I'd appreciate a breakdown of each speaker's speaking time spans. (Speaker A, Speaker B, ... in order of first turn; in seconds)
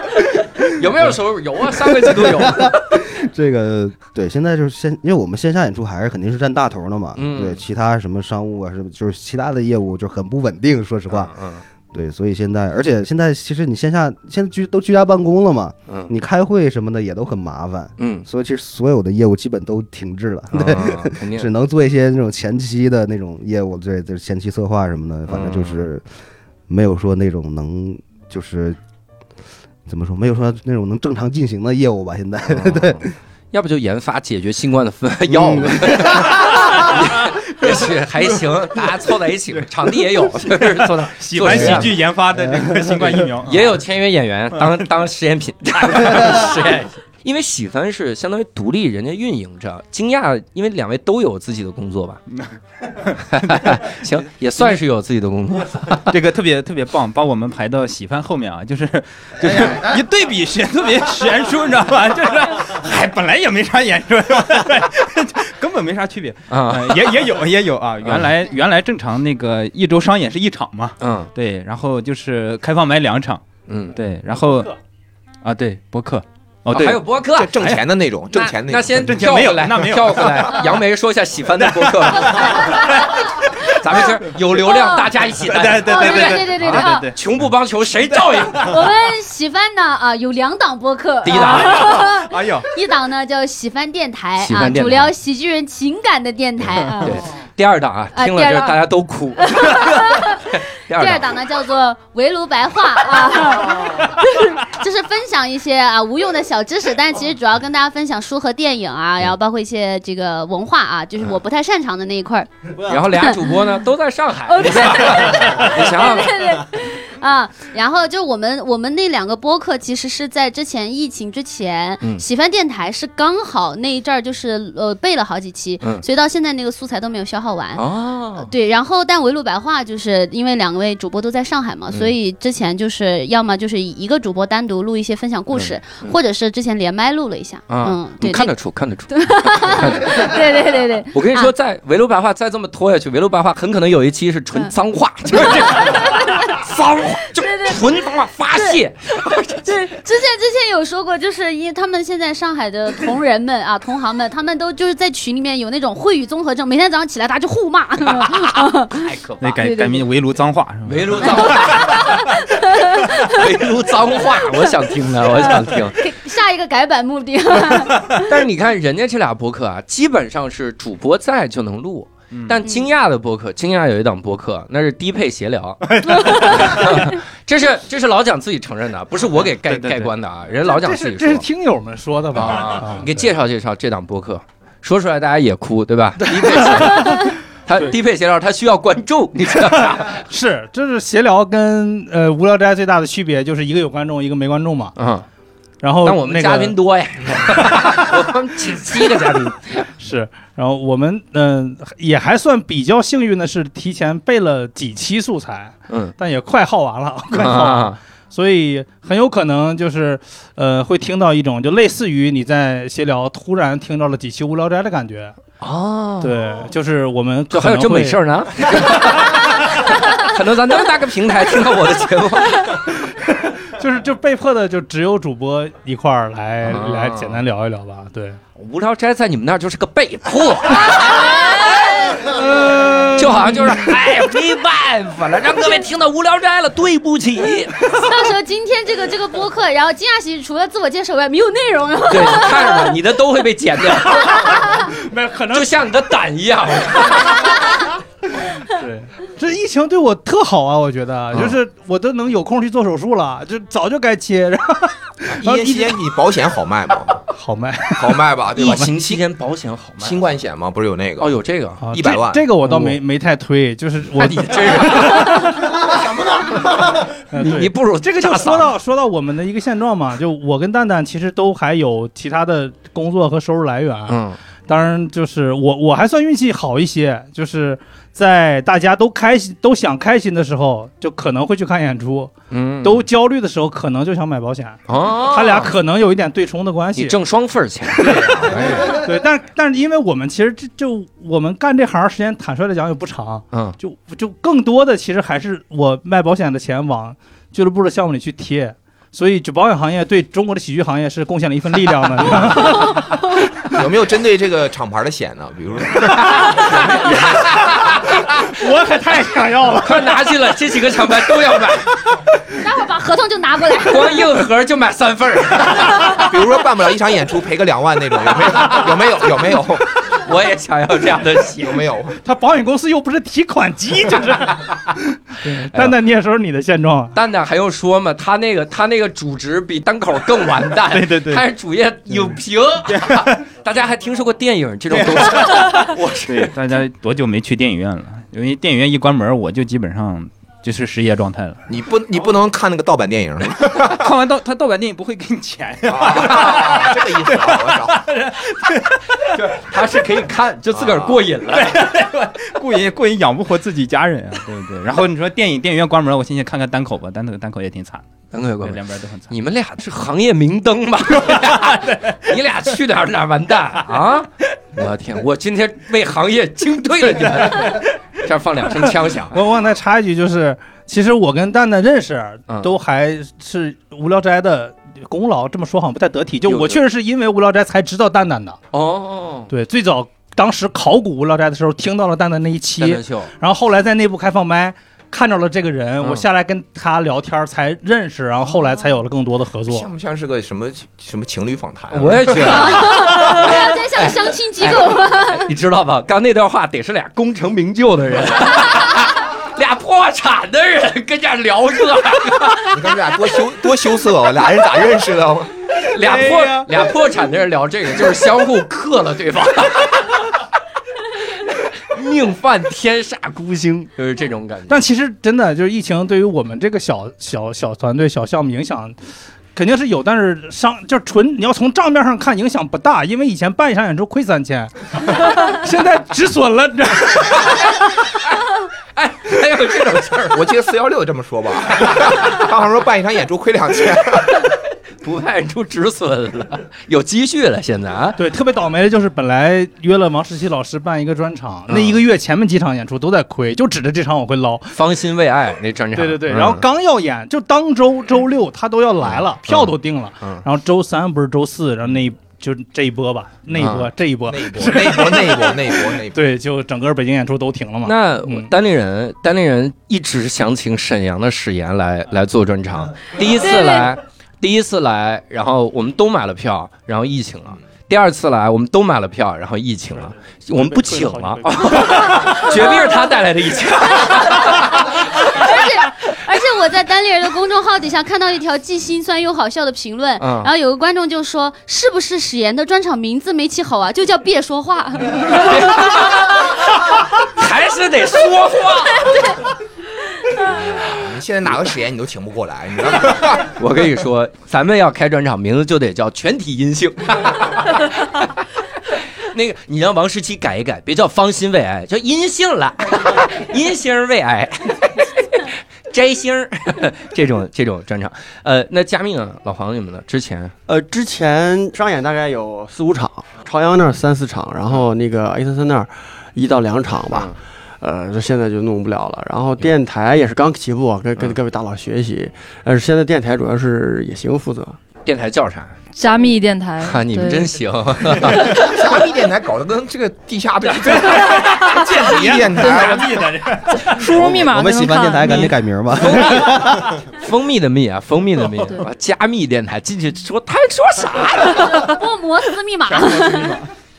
Speaker A: 0.6-1.1, 1.8-11.3, 11.9-26.0, 26.7-28.8, 29.9-33.1, 35.3-36.6, 42.5-43.1, 534.2-537.0
Speaker B: 0.6-2.9, 7.2-7.6, 11.1-11.6, 18.0-18.2, 20.5-21.5, 25.3-25.8, 32.5-42.0, 43.4-52.2, 53.3-56.1, 66.5-67.2, 68.0-68.3, 71.0-71.3, 73.7-73.9, 76.7-77.5, 78.3-88.7, 91.2-92.1, 94.4-95.1, 96.7-101.3, 112.9-116.4, 127.8-128.5, 135.5-136.2, 137.7-140.4, 141.1-149.7, 158.1-159.6, 160.8-162.2, 163.1-166.0, 168.1-181.4, 182.3-190.2, 194.9-195.2, 196.0-199.8, 205.9-206.1, 207.3-208.0, 215.6-216.4, 217.5-222.8, 226.6-227.4, 228.6-238.2, 242.1-244.6, 245.5-247.6, 258.5-260.2, 261.2-261.9, 262.6-263.0, 264.1-265.6, 267.4-268.7, 274.1-274.4, 282.5-283.1, 284.9-285.7, 286.9-289.0, 293.5-293.8, 306.2-308.4, 309.8-311.9, 313.9-316.2, 318.6-318.9, 320.1-321.8, 325.7-326.0, 327.1-336.5, 349.3-351.8, 358.3-369.4, 372.5-372.7, 376.4-376.8, 378.7-379.5, 382.8-383.3, 391.9-402.8, 405.8-410.3, 411.4-414.8, 428.9-430.4, 435.0-438.2, 441.7-442.0, 444.7-446.6, 449.0-450.4, 453.5-453.9, 457.8-475.5, 480.2-480.5, 485.2-489.1, 493.4-498.4, 499.2-510.5, 517.1-517.4, 525.0-525.8, 526.8-528.6, 536.0-541.9
Speaker C: 37.6-38.5, 39.8-43.8, 45.8-46.5, 52.3-53.8, 55.9-74.7, 75.4-77.8, 79.0-80.7, 81.6-83.3, 85.4-87.5, 88.1-88.8, 91.3-92.7, 159.4-162.1, 172.3-172.6, 175.9-177.0, 179.6-180.1, 330.9-331.4, 332.9-333.4, 334.9-341.6, 343.7-349.4, 351.5-358.0, 358.6-359.3, 361.2-362.0, 530.8-534.2, 542.9-543.7
Speaker D: 77.3-79.5, 255.3-257.2, 257.9-259.2, 260.0-261.4, 261.9-262.5, 303.7-307.5, 316.1-320.1, 321.6-322.2, 341.7-344.1, 345.9-348.1, 350.7-351.2, 389.6-392.9, 402.7-405.5, 430.3-434.5, 454.3-456.2, 490.4-493.5, 528.3-533.3
Speaker E: 82.6-83.1, 84.6-85.1, 85.8-87.1, 88.6-97.2, 98.1-98.8, 99.4-113.4, 114.5-127.8, 128.4-138.5, 139.1-141.5, 145.4-146.6, 147.4-148.0, 148.5-148.8, 149.6-159.1, 159.6-160.1, 161.4-163.4, 165.3-168.3, 176.2-176.5, 230.8-232.2, 238.0-243.0, 244.5-244.8, 312.6-314.2, 392.4-395.5, 463.3-463.9, 472.5-473.0, 474.0-486.3, 489.0-489.3, 541.6-543.6
Speaker F: 180.6-183.3, 186.4-186.8, 189.8-194.9, 195.8-196.8, 200.0-215.4, 216.2-218.2, 223.6-228.4, 232.7-233.2, 244.9-245.7, 248.7-256.1, 257.3-258.9, 261.8-287.2, 288.1-303.2, 308.5-310.2, 322.2-327.1, 369.3-378.6, 379.5-389.9, 406.0-406.7, 414.7-419.0, 419.5-427.6, 438.2-444.7, 445.9-458.5, 470.6-472.1
Speaker G: 510.7-524.8
Speaker H: 525.9-527.5, 533.9-535.5